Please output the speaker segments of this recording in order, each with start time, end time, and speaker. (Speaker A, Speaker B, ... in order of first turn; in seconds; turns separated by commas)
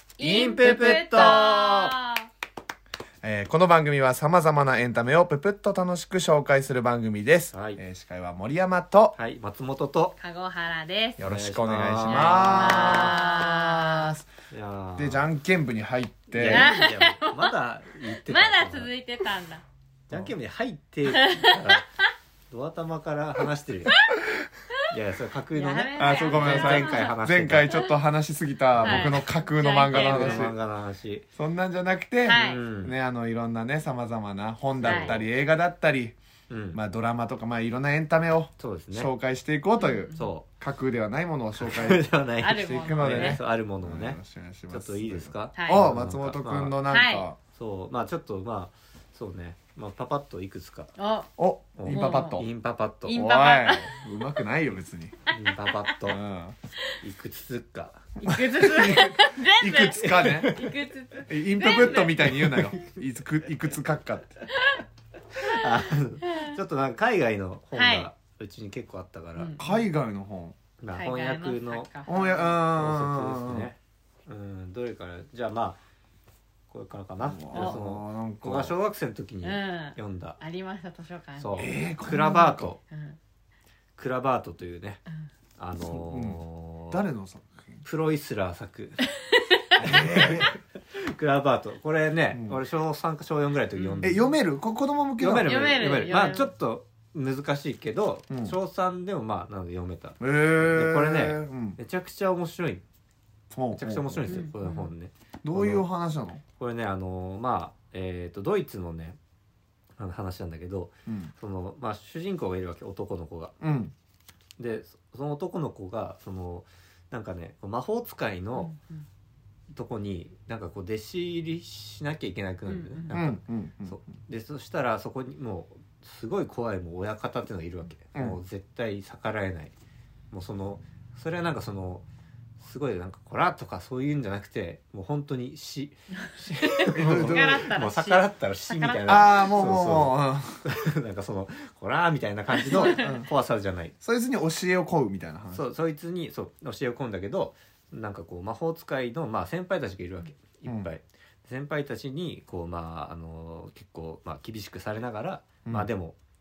Speaker A: 0.2-2.3, Speaker B: 0.2-1.9, Speaker C: 3.2-9.2, Speaker B: 7.5-7.8, Speaker B: 9.1-10.2, Speaker A: 10.2-11.2, Speaker C: 11.2-14.2, Speaker B: 11.2-13.2, Speaker A: 12.1-14.1, Speaker B: 14.5-15.3, Speaker C: 15.0-16.7, Speaker B: 16.3-18.9, Speaker A: 16.4-17.6, Speaker A: 18.1-19.6, Speaker B: 20.1-21.9, Speaker A: 21.1-21.8, Speaker B: 22.5-23.9, Speaker B: 24.9-27.7, Speaker A: 25.5-27.2, Speaker C: 25.9-30.5, Speaker A: 28.8-30.5, Speaker B: 28.8-29.2, Speaker B: 29.9-31.2, Speaker C: 31.4-36.1, Speaker A: 32.2-32.6, Speaker B: 32.3-32.9, Speaker B: 34.8-35.3, Speaker A: 34.8-35.1, Speaker B: 36.5-36.8, Speaker C: 36.7-42.0, Speaker B: 38.6-39.1, Speaker A: 39.8-40.3, Speaker B: 40.1-40.5, Speaker B: 41.5-44.2, Speaker A: 42.4-43.4, Speaker C: 42.6-47.4, Speaker B: 44.7-46.8, Speaker A: 45.5-45.8, Speaker A: 46.9-47.2, Speaker B: 47.5-50.9, Speaker A: 51.0-51.3, Speaker C: 51.4-52.5, Speaker B: 51.8-53.2, Speaker A: 51.9-52.4, Speaker A: 53.0-54.3, Speaker C: 53.1-55.1, Speaker B: 55.3-56.2, Speaker C: 56.1-56.5, Speaker B: 57.0-58.1, Speaker A: 58.2-62.7, Speaker C: 58.3-60.6, Speaker B: 60.0-60.7, Speaker C: 61.3-64.4, Speaker B: 65.3-69.5, Speaker A: 65.4-65.7, Speaker A: 66.3-66.6, Speaker A: 67.7-68.1, Speaker A: 69.3-69.8, Speaker C: 69.6-70.6, Speaker B: 70.8-75.8, Speaker A: 70.9-72.5, Speaker C: 72.0-73.7, Speaker B: 76.7-80.4, Speaker C: 77.2-78.7, Speaker A: 79.4-81.6, Speaker B: 81.4-82.8, Speaker C: 81.6-82.7, Speaker A: 82.9-83.2, Speaker B: 84.0-85.0, Speaker B: 85.6-87.0, Speaker C: 85.8-87.8, Speaker B: 87.8-89.0, Speaker A: 89.3-89.6, Speaker C: 89.8-90.5, Speaker B: 89.8-94.3, Speaker C: 92.3-92.6, Speaker A: 93.8-94.2, Speaker C: 94.0-95.9, Speaker B: 95.2-102.8, Speaker A: 95.5-96.5, Speaker C: 98.3-98.5, Speaker C: 100.2-101.8, Speaker C: 103.5-104.5, Speaker B: 103.8-105.9, Speaker A: 104.3-104.9, Speaker C: 105.4-106.4, Speaker B: 106.6-109.2, Speaker B: 110.0-113.5, Speaker C: 111.1-111.3, Speaker C: 113.6-113.9, Speaker B: 114.6-118.7, Speaker A: 118.5-119.0, Speaker B: 119.7-129.7, Speaker A: 122.7-123.2, Speaker C: 123.1-124.0, Speaker B: 130.3-132.0, Speaker B: 132.6-143.9, Speaker A: 136.7-139.5, Speaker C: 136.9-137.7, Speaker C: 139.1-140.6, Speaker A: 142.6-143.2, Speaker C: 142.7-143.3, Speaker C: 144.0-145.6, Speaker B: 145.5-156.2